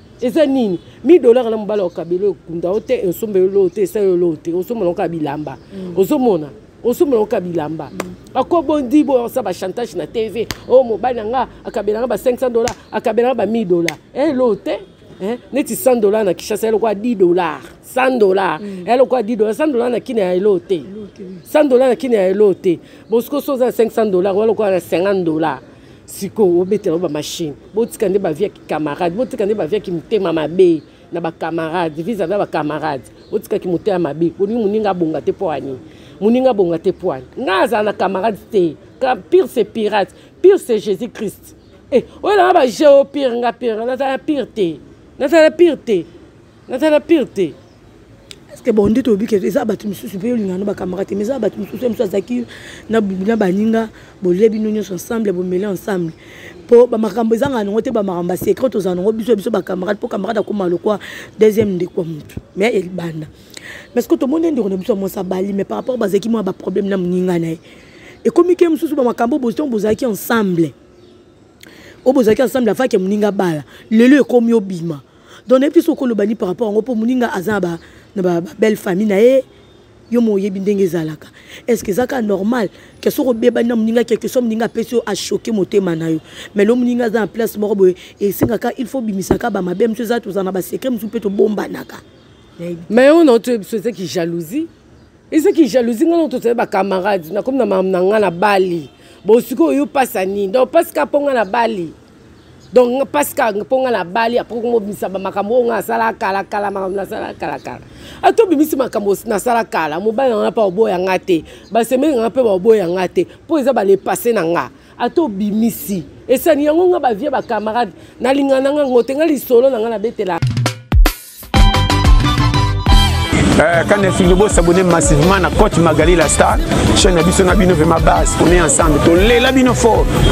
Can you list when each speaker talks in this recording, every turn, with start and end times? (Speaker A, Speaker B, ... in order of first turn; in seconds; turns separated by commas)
Speaker A: 0.2-20.9, Speaker B: 18.6-18.9, Speaker B: 20.9-21.4, Speaker A: 21.5-46.1, Speaker A: 46.7-47.5, Speaker B: 48.5-56.1, Speaker B: 56.7-63.3, Speaker B: 63.9-67.6, Speaker B: 68.2-70.7, Speaker B: 72.0-79.4, Speaker B: 80.1-92.0, Speaker B: 92.6-92.9, Speaker A: 92.9-94.7, Speaker A: 95.3-101.9, Speaker A: 102.7-120.4, Speaker C: 123.6-130.1